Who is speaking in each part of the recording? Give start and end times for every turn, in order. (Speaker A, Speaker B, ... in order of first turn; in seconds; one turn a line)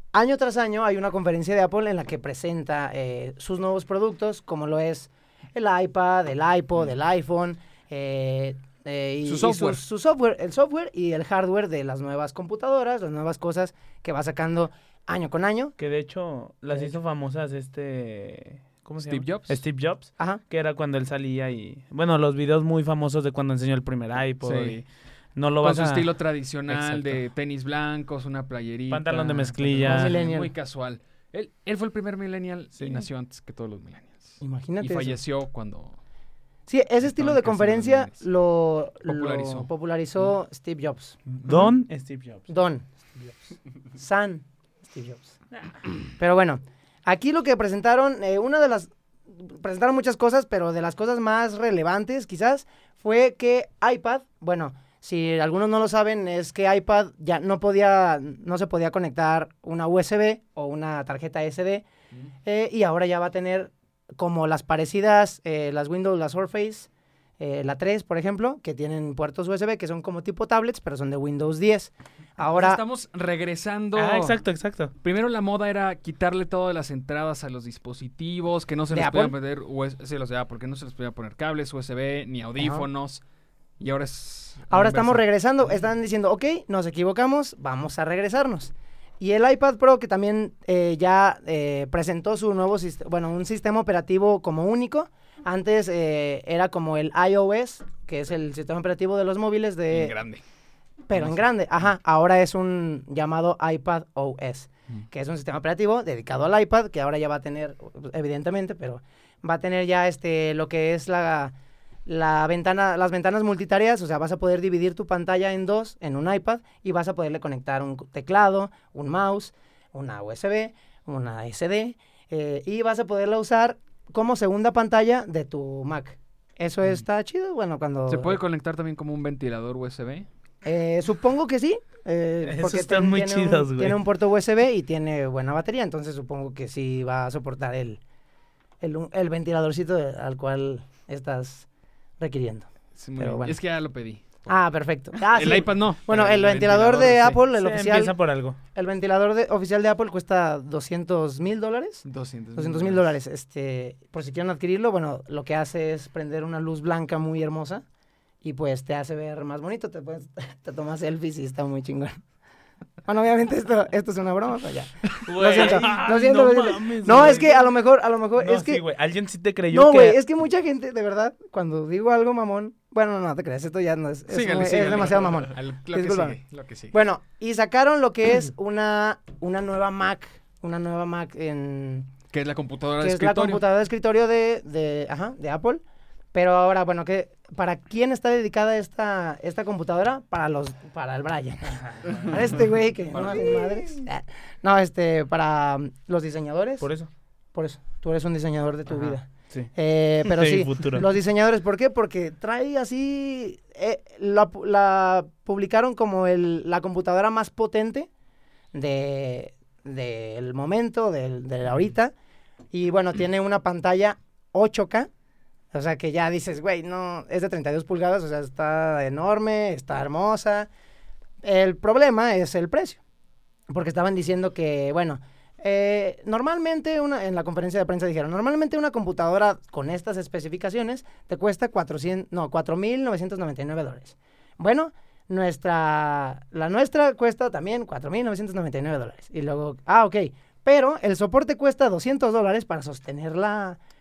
Speaker A: 0.1-15.7
Speaker B: 9.2-9.8
Speaker C: 15.8-24.8
Speaker B: 19.0-19.6
Speaker B: 24.4-24.8
Speaker C: 25.4-26.1
Speaker B: 25.6-36.0
Speaker C: 26.7-27.2
Speaker C: 28.9-30.2
Speaker A: 29.8-30.5
Speaker C: 32.7-33.0
Speaker A: 34.4-35.2
Speaker A: 36.7-41.2
Speaker B: 37.0-38.2
Speaker B: 39.0-39.7
Speaker C: 41.3-42.5
Speaker A: 42.5-43.4
Speaker A: 43.9-45.4
Speaker A: 46.2-61.9
Speaker A: 62.4-66.9
Speaker A: 67.4-72.8
Speaker B: 72.5-74.4
Speaker C: 73.9-74.9
Speaker B: 75.0-83.2
Speaker A: 78.9-79.3
Speaker A: 82.6-82.8
Speaker B: 83.8-85.2
Speaker A: 84.7-100.2
Speaker B: 99.9-100.4
Speaker A: 101.1-111.5
Speaker B: 101.1-101.4
Speaker A: 112.0-128.4
Speaker B: 128.1-130.3
Speaker A: 130.6-138.0
Speaker C: 132.4-134.0
Speaker A: 138.8-141.7
Speaker A: 142.2-143.6
Speaker B: 142.9-144.6
Speaker A: 144.5-148.2
Speaker B: 145.2-147.4
Speaker C: 147.6-148.6
Speaker A: 148.7-157.8
Speaker B: 152.0-153.1
Speaker A: 158.4-162.2
Speaker A: 163.0-168.8
Speaker C: 165.2-167.7
Speaker B: 165.5-166.0
Speaker C: 168.4-170.2
Speaker A: 169.7-176.4
Speaker B: 174.3-176.9
Speaker A: 176.9-182.2
Speaker B: 182.3-183.7
Speaker A: 183.0-185.8
Speaker A: 186.3-196.9
Speaker B: 193.1-193.8
Speaker C: 196.8-197.1
Speaker A: 197.5-208.1
Speaker C: 198.9-199.7
Speaker C: 200.2-201.1
Speaker A: 208.7-212.1
Speaker A: 212.7-215.1
Speaker A: 215.7-220.7
Speaker A: 221.4-223.0
Speaker A: 223.7-243.8